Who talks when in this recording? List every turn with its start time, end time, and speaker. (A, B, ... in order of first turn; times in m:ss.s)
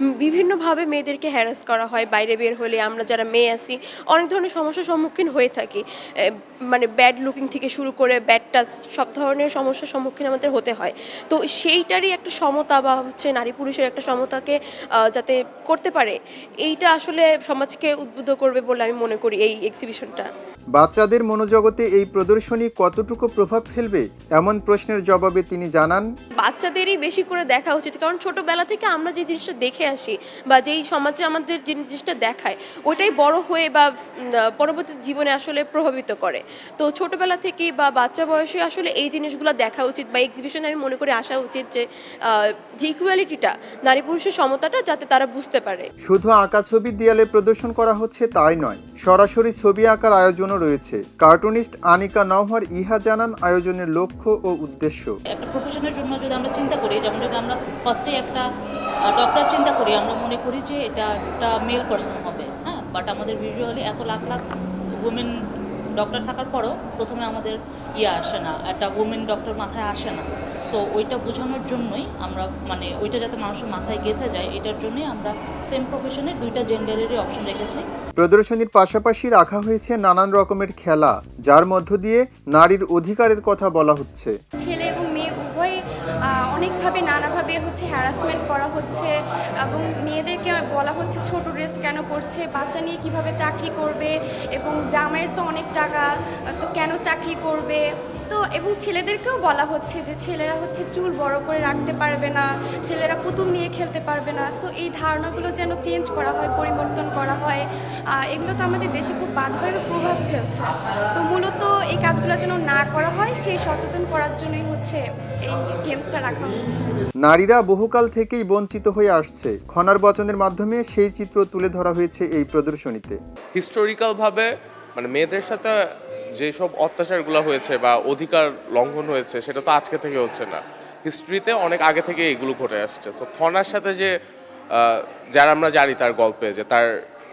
0:00.2-0:14.6 A
0:15.1-0:20.3 A
0:20.7-0:26.1 B
0:26.4-0:33.9 A
0:34.6-0:45.9 A
0:46.0-0:55.1 B
0:55.3-0:58.4 C
0:59.1-1:04.4 C
1:05.0-1:05.3 C
1:06.0-1:17.8 C
1:18.2-1:24.3 B
1:24.6-1:36.0 D
1:36.6-1:47.6 D
1:48.2-1:57.0 D
1:57.2-2:03.2 B
2:03.5-2:05.8 E
2:06.4-2:14.1 E
2:14.7-2:16.9 E